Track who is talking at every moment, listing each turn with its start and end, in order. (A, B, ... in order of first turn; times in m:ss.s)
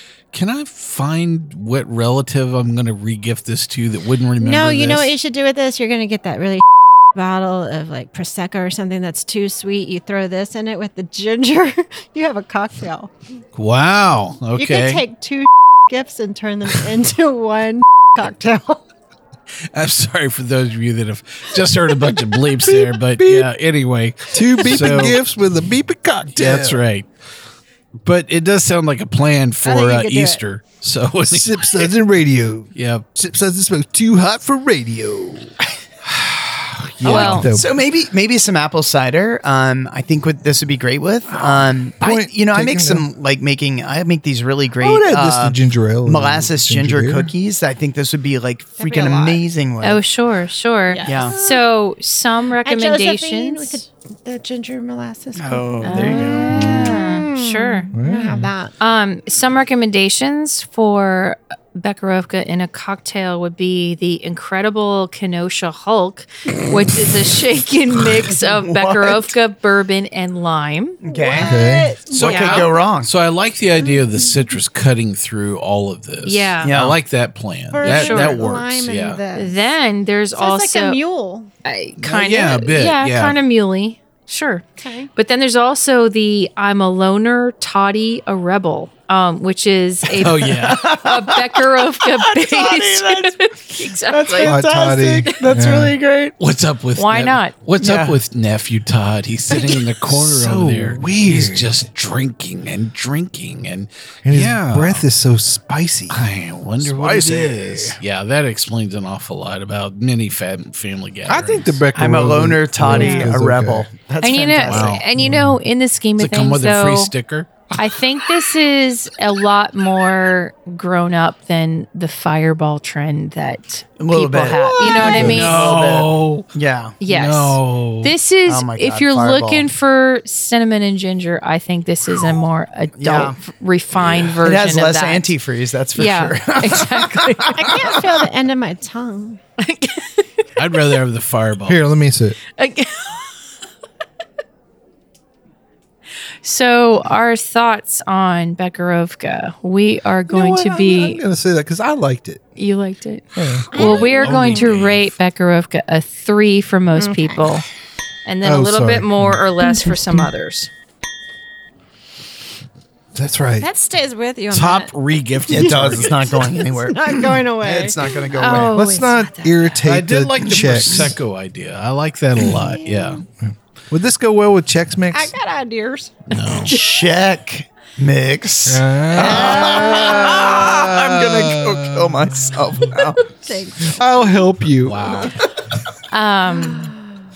0:00.3-0:05.1 A
0:04.4-0:13.1 B
0:13.5-0:15.0 A
0:14.6-0:18.8 B
0:19.7-0:25.2 A
0:22.6-0:23.5 C
0:24.3-0:26.8 C
0:26.3-0:27.1 A
0:28.0-0:31.9 A
0:29.6-0:30.4 B
0:31.3-0:35.5 C
0:32.7-0:33.0 A
0:36.0-0:37.4 A
0:37.0-0:37.7 C
0:37.0-0:50.0 D
0:37.0-0:37.4 E
0:41.3-0:43.0 C
0:44.8-0:47.3 C
0:48.8-0:49.4 B
0:49.8-0:53.8 E
0:50.9-0:51.6 B
0:51.0-0:51.3 D
0:52.6-0:58.7 B
0:55.4-0:56.9 D
0:55.8-0:57.9 E
0:57.9-0:58.5 C
0:58.8-1:11.0 E
1:08.3-1:09.3 D
1:11.0-1:11.6 D
1:11.0-1:12.5 B
1:11.4-1:11.9 C
1:12.1-1:19.2 A
1:12.2-1:13.1 D
1:12.2-1:12.6 E
1:16.2-1:16.8 E
1:16.6-1:17.0 D
1:17.7-1:19.7 B
1:17.8-1:18.4 E
1:19.3-1:21.0 E
1:20.3-1:21.5 B
1:21.6-1:34.6 E
1:22.0-1:23.4 A
1:24.8-1:25.1 B
1:30.2-1:36.3 D
1:30.2-1:30.9 A
1:34.4-1:36.0 C
1:36.4-1:45.0 A
1:37.0-1:37.5 E
1:37.8-1:38.2 D
1:40.1-1:41.8 C
1:44.2-1:46.3 C
1:46.1-1:51.8 A
1:46.8-1:48.0 C
1:51.2-1:53.9 C
1:51.9-1:55.0 D
1:52.9-1:53.3 E
1:54.2-1:57.1 E
1:54.7-1:55.0 A
1:55.2-1:55.6 C
1:56.2-1:57.7 A
1:57.8-2:05.7 E
2:04.0-2:07.0 D
2:05.0-2:06.5 A
2:07.0-2:15.3 E
2:07.1-2:08.1 A
2:08.4-2:09.7 D
2:13.0-2:13.4 D
2:13.9-2:14.4 A
2:14.4-2:18.2 D
2:16.0-2:17.8 E
2:17.5-2:19.4 B
2:19.6-2:20.4 E
2:20.6-2:21.8 A
2:21.7-2:22.4 C
2:22.6-2:23.4 E
2:26.4-2:31.2 E
2:30.3-2:32.4 C
2:32.6-2:37.6 E
2:33.3-2:33.7 C
2:33.7-2:34.7 B
2:33.7-2:35.1 A
2:37.0-2:37.6 B
2:38.2-2:40.7 E
2:38.4-2:40.3 C
2:43.1-2:43.7 C
2:43.6-2:44.9 B
2:44.5-2:46.5 A
2:45.5-2:48.7 D
2:46.8-2:48.1 B
2:48.4-2:49.7 E
2:48.7-2:51.2 C
2:49.8-2:53.2 A
2:52.6-2:53.2 B
2:53.4-2:55.3 C
2:55.1-2:56.3 B
2:56.3-2:56.7 A
2:56.7-3:03.3 D
2:58.6-3:03.1 C
2:59.2-3:00.3 B
3:03.4-3:04.5 B
3:03.8-3:05.2 C
3:04.8-3:05.4 A
3:06.1-3:06.9 E
3:06.5-3:07.2 B